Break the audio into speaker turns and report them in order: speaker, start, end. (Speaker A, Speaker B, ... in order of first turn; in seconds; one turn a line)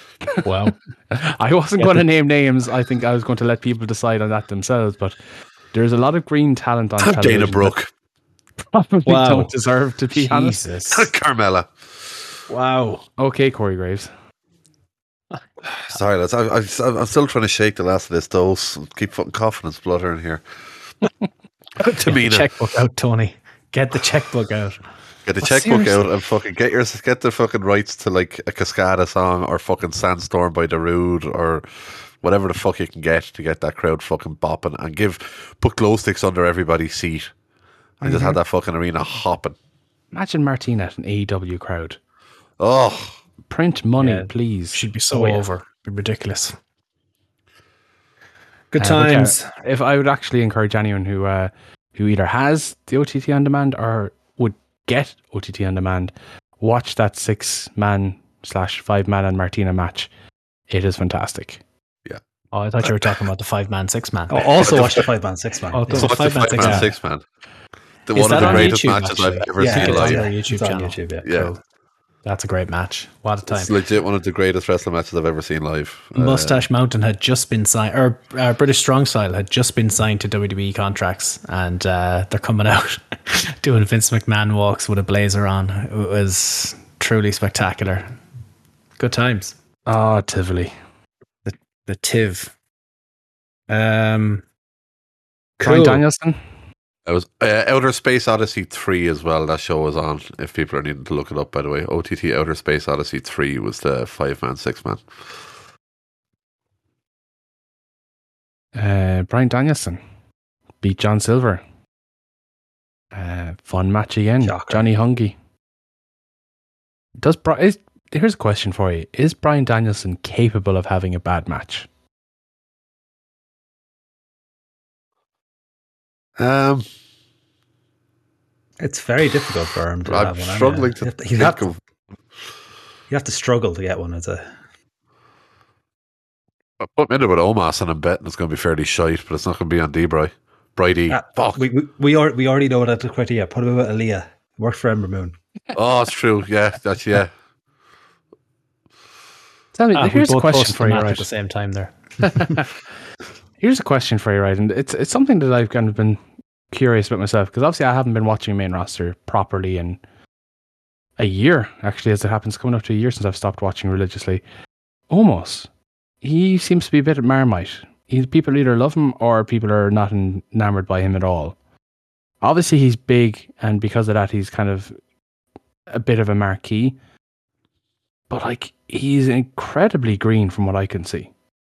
Speaker A: 0.4-0.7
Speaker B: 1.1-5.2
Speaker B: 5.7-7.7
Speaker C: 7.0-7.9
Speaker B: 8.7-10.6
Speaker A: 9.0-9.5
Speaker A: 10.1-11.1
Speaker C: 10.9-11.7
Speaker A: 12.5-13.0
Speaker B: 13.2-14.1
Speaker C: 15.9-20.4
Speaker A: 21.8-24.8
Speaker C: 21.8-22.5
Speaker C: 25.2-37.3
Speaker A: 25.4-26.0
Speaker C: 38.0-39.5
Speaker B: 40.1-42.0
Speaker C: 42.6-43.2
Speaker B: 43.5-45.4
Speaker A: 44.0-46.5
Speaker A: 48.7-49.5
Speaker B: 48.8-60.1
Speaker B: 60.7-61.6
Speaker A: 62.5-65.0
Speaker C: 62.8-63.1
Speaker D: 64.3-66.8
Speaker C: 64.6-65.0
Speaker A: 65.7-66.9
Speaker C: 65.9-67.2
Speaker C: 68.1-70.2
Speaker A: 68.1-71.6
Speaker D: 68.3-68.7
Speaker D: 69.6-71.3
Speaker C: 71.2-71.5
Speaker A: 72.2-73.7
Speaker C: 73.5-76.7
Speaker A: 76.1-88.1
Speaker A: 89.0-89.5
Speaker B: 89.9-90.7
Speaker A: 91.5-92.5
Speaker A: 93.7-94.4
Speaker A: 95.6-96.0
Speaker B: 95.6-96.4
Speaker C: 97.0-105.0
Speaker B: 108.7-110.0
Speaker B: 110.8-111.6
Speaker B: 113.1-115.3
Speaker D: 114.4-114.8
Speaker B: 117.2-121.9
Speaker C: 126.4-126.8
Speaker D: 128.8-131.7
Speaker C: 130.1-131.8
Speaker D: 133.1-134.5
Speaker C: 136.8-141.6
Speaker D: 141.1-145.3
Speaker C: 145.7-147.3
Speaker B: 149.7-151.3
Speaker A: 149.9-152.5
Speaker B: 152.2-152.6
Speaker B: 153.6-156.2
Speaker B: 156.7-160.0
Speaker B: 161.2-164.4
Speaker B: 165.1-165.7
Speaker B: 166.2-171.6
Speaker B: 172.4-174.9
Speaker B: 175.9-176.9
Speaker B: 178.3-181.3